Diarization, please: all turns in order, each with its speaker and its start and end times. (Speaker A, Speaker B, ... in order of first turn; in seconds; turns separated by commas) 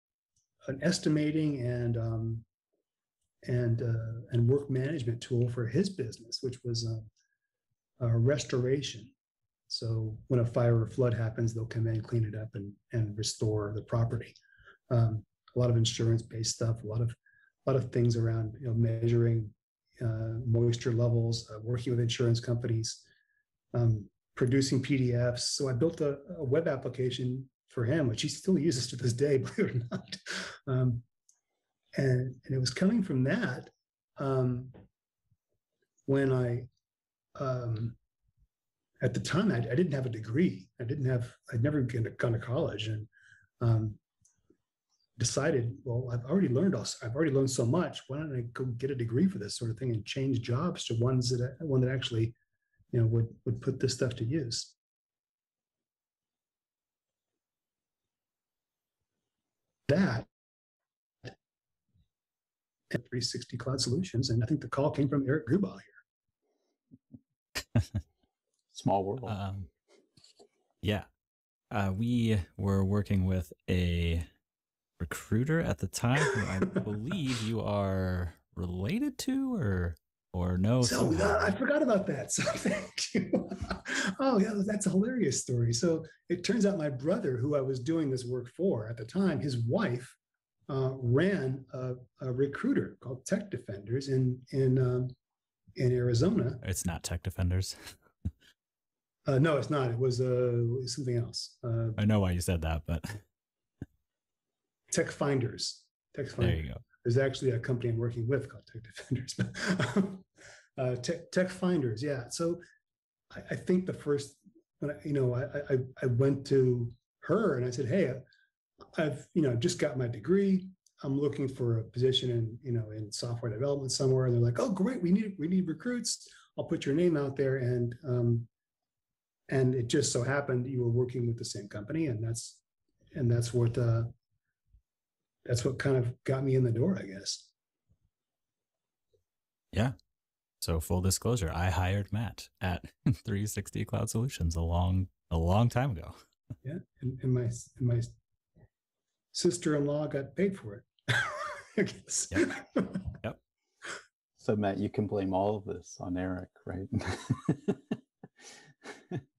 Speaker A: 0.7-2.5, Speaker A: 3.5-7.1, Speaker A: 8.0-9.1, Speaker A: 9.7-14.4, Speaker A: 14.9-23.0, Speaker A: 23.7-31.0, Speaker A: 31.9-34.8, Speaker A: 36.1-36.7, Speaker A: 37.4-38.0, Speaker A: 39.0-43.1, Speaker A: 43.6-44.0, Speaker A: 45.2-52.4, Speaker A: 52.9-54.7, Speaker A: 59.9-60.3, Speaker A: 62.9-66.0, Speaker B: 68.7-69.3, Speaker C: 69.3-69.7, Speaker C: 71.7-74.3, Speaker C: 75.0-81.6, Speaker A: 80.8-90.2, Speaker A: 90.7-95.1, Speaker A: 95.8-96.6, Speaker C: 96.6-97.9, Speaker A: 99.3-102.0, Speaker C: 102.0-103.2, Speaker A: 104.9-112.6, Speaker C: 106.4-106.8, Speaker A: 113.3-118.2, Speaker A: 118.9-128.5, Speaker A: 129.5-132.6, Speaker A: 133.1-134.1, Speaker A: 135.5-137.5, Speaker C: 140.6-146.2, Speaker A: 146.6-148.1, Speaker A: 149.3-153.1, Speaker B: 154.4-158.0, Speaker B: 158.9-159.2